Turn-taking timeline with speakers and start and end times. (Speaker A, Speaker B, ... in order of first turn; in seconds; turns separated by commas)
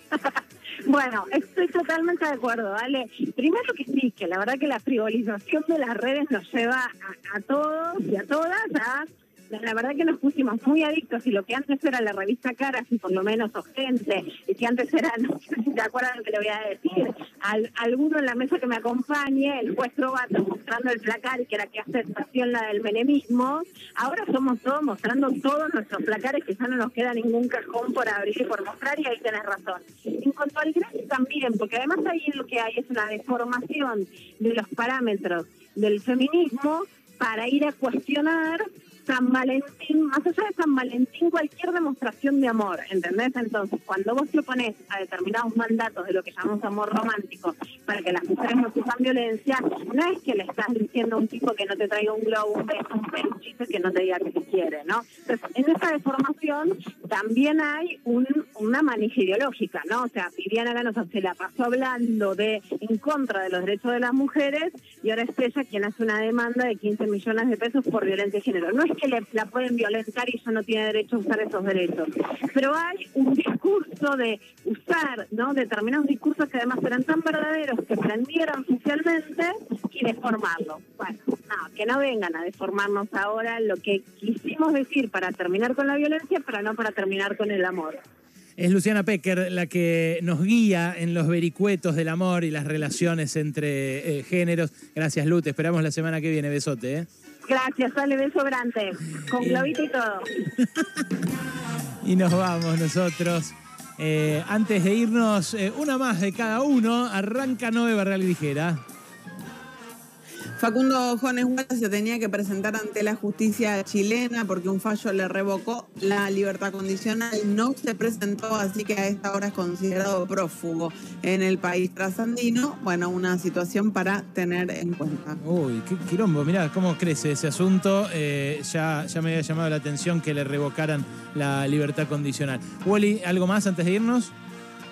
Speaker A: 0.2-88.0, Speaker B: 88.6-97.1, Speaker A: 97.5-100.3, Speaker B: 99.4-99.7, Speaker B: 102.0-108.8, Speaker C: 110.6-125.4, Speaker B: 125.4-134.3